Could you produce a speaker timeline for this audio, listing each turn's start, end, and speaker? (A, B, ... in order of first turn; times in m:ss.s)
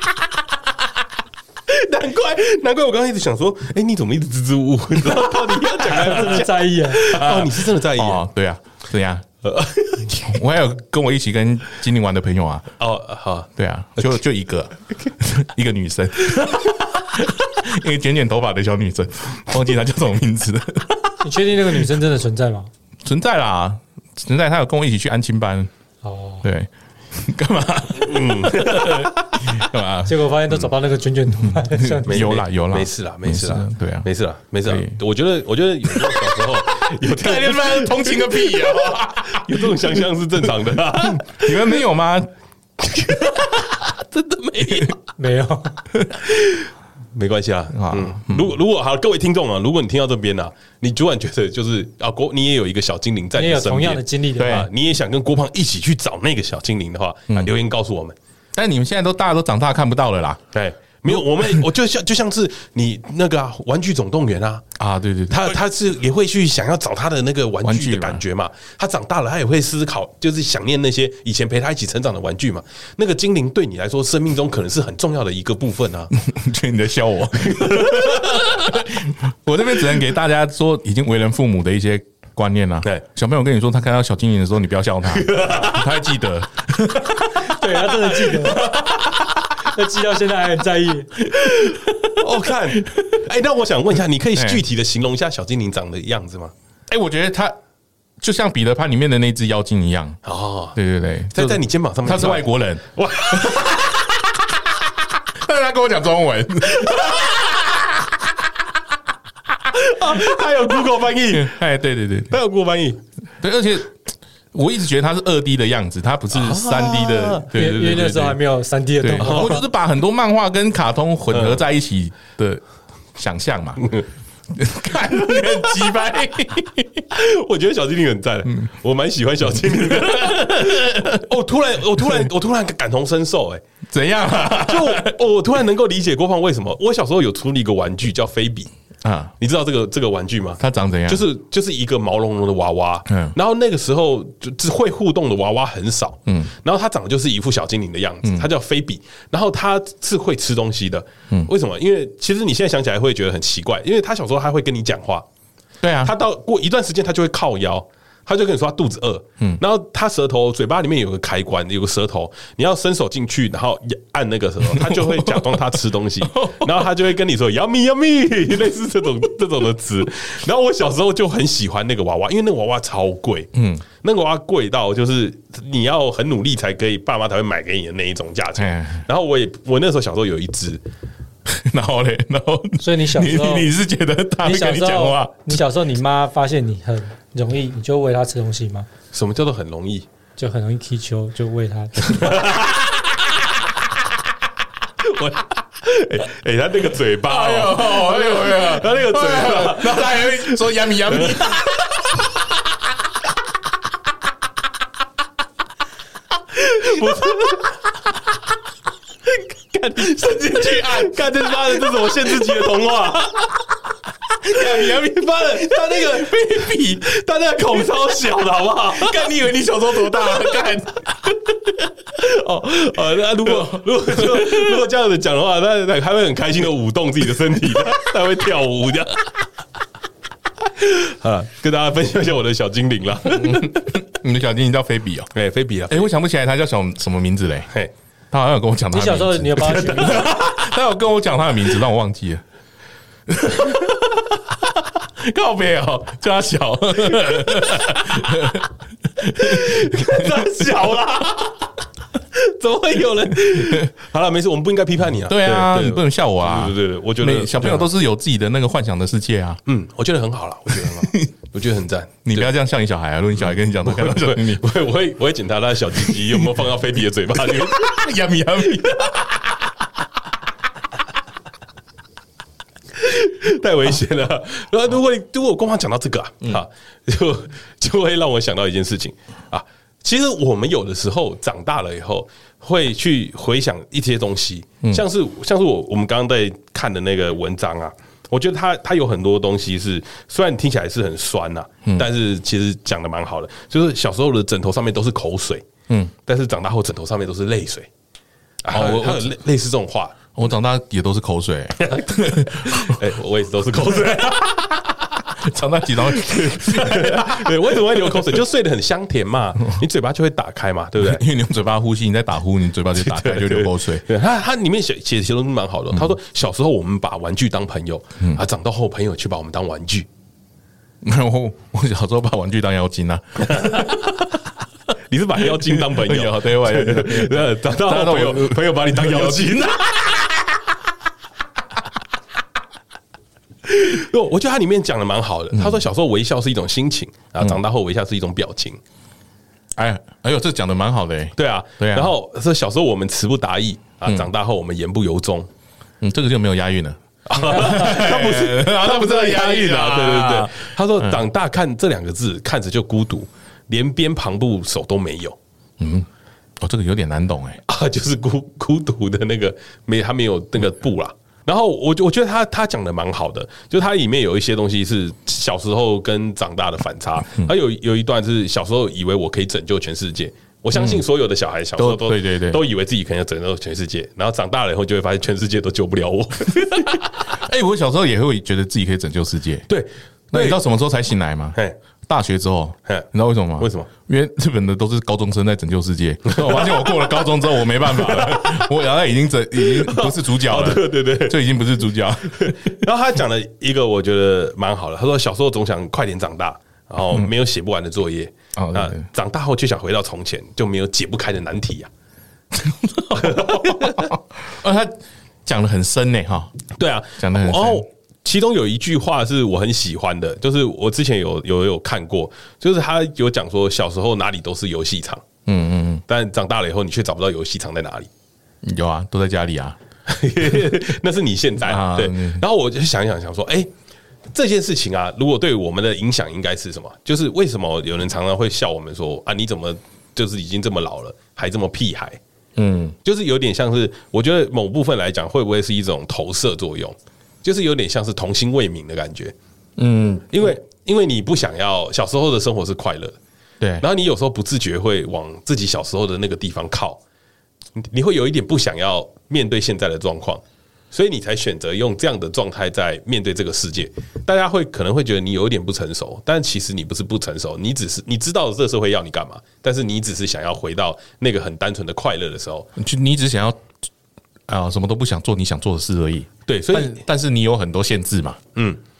0:01.7-0:08.2 A
0:05.8-0:07.2 B
0:07.1-0:09.2 C
0:09.4-0:10.3 A
0:10.1-0:12.7 C
0:12.8-0:13.5 A
0:13.6-0:21.2 C
0:21.2-0:22.7 B
0:23.0-0:25.7 C
0:26.0-0:26.4 B
0:26.4-0:30.2 C
0:28.0-0:29.1 A
0:30.0-0:32.3 B
0:31.4-0:34.1 C
0:32.0-0:41.8 A
0:34.6-0:35.0 C
0:35.9-0:40.0 C
0:41.0-0:42.3 C
0:42.8-0:45.0 A
0:43.1-0:43.6 C
0:44.6-0:44.9 C
0:45.2-0:45.8 B
0:45.9-0:46.2 C
0:46.2-0:58.2 A
0:47.7-0:48.5 C
0:53.3-0:54.6 B
0:54.4-0:54.7 C
0:58.5-1:00.4 C
1:00.5-1:04.6 A
1:01.1-1:01.6 C
1:04.8-1:05.6 C
1:05.3-1:16.1 A
1:07.6-1:08.2 C
1:16.1-1:29.0 C
1:17.5-1:18.5 A
1:25.1-1:25.9 A
1:27.4-1:28.8 B
1:29.6-1:31.2 B
1:31.5-1:36.5 A
1:32.7-1:33.2 C
1:34.4-1:34.6 C
1:36.9-1:37.5 C
1:38.2-1:40.2 C
1:40.2-1:40.8 A
1:40.7-1:44.7 C
1:41.3-1:43.9 A
1:45.3-1:48.2 C
1:46.7-1:47.7 A
1:49.6-1:51.6 A
1:51.3-1:52.3 C
1:52.3-1:53.0 A
1:53.4-1:53.9 C
1:54.5-1:58.4 C
1:56.3-1:57.5 A
1:57.5-1:59.6 B
1:59.0-2:02.6 C
1:59.2-1:59.6 A
2:01.3-2:01.6 A
2:03.2-2:03.9 C
2:04.5-2:07.0 C
2:07.1-2:13.6 A
2:09.6-2:11.2 C
2:13.9-2:15.2 C
2:14.6-2:18.7 A
2:19.0-2:19.3 C
2:19.4-2:35.2 A
2:20.6-2:21.2 C
2:23.1-2:23.3 C
2:26.3-2:26.5 C
2:35.8-2:36.1 C
2:36.0-3:00.8 A
2:44.7-2:45.6 C
2:46.3-2:46.9 C
2:53.5-2:53.8 C
2:58.6-2:59.0 C
3:01.4-3:05.6 C
3:02.8-3:03.7 B
3:04.4-3:08.9 B
3:09.1-3:10.0 A
3:10.4-3:12.6 B
3:12.2-3:13.1 A
3:15.0-3:21.9 A
3:17.2-3:22.2 C
3:26.6-3:27.7 A
3:26.8-3:27.6 C
3:29.7-3:32.8 C
3:29.9-3:33.5 A
3:34.3-3:37.1 C
3:34.6-3:36.3 A
3:37.0-3:39.3 A
3:38.9-3:41.4 C
3:40.1-3:40.6 A
3:42.1-3:49.4 A
3:43.4-3:44.8 C
3:50.7-3:53.9 A
3:53.3-3:55.3 C
3:55.3-3:56.1 A
3:55.9-3:57.7 C
3:58.3-4:02.4 C
3:58.9-4:00.3 B
4:03.3-4:10.9 C
4:09.4-4:11.7 A
4:12.3-4:17.9 A
4:13.6-4:13.9 C
4:15.3-4:19.6 C
4:19.6-4:22.5 A
4:20.7-4:21.3 C
4:22.2-4:24.6 C
4:23.5-4:28.1 A
4:26.1-4:26.5 C
4:27.3-4:30.0 C
4:28.7-4:29.0 A
4:33.0-4:55.6 A
4:56.2-4:57.9 A
4:58.6-5:00.3 A
4:58.7-4:59.3 C
5:00.3-5:03.0 C
5:01.8-5:05.1 A
5:05.2-5:08.4 C
5:06.0-5:11.2 A
5:11.0-5:14.0 C
5:13.0-5:20.1 A
5:21.0-5:24.1 C
5:23.5-5:23.9 A
5:25.1-5:30.3 A
5:25.6-5:29.9 C
5:33.6-5:38.8 A
5:39.8-5:42.1 C
5:41.4-5:45.5 A
5:46.0-5:51.2 C
5:47.3-5:55.4 A
5:55.8-5:56.1 C
5:56.6-5:57.6 C
5:57.7-6:17.2 A
6:07.2-6:07.5 C
6:10.7-6:11.0 C
6:11.8-6:12.6 C
6:17.3-6:19.7 C
6:19.7-6:20.6 A
6:20.3-6:32.7 C
6:23.6-6:23.9 A
6:26.2-6:28.7 A
6:29.6-6:31.4 A
6:32.3-6:41.9 A
6:38.6-6:39.0 C
6:42.5-6:46.5 C
6:43.1-6:44.1 A
6:46.8-6:55.2 A
6:47.2-6:47.8 C
6:55.5-6:56.0 C
6:56.1-6:58.1 A
6:58.6-6:59.8 C
7:00.1-7:03.7 A
7:01.6-7:02.4 C
7:04.3-7:12.2 A
7:12.6-7:13.0 C
7:13.0-7:19.3 A
7:19.8-7:20.5 C
7:20.3-7:23.2 A
7:23.8-7:27.0 A
7:27.8-7:42.7 A
7:42.8-7:43.6 C
7:44.5-7:48.4 C
7:46.5-7:47.0 A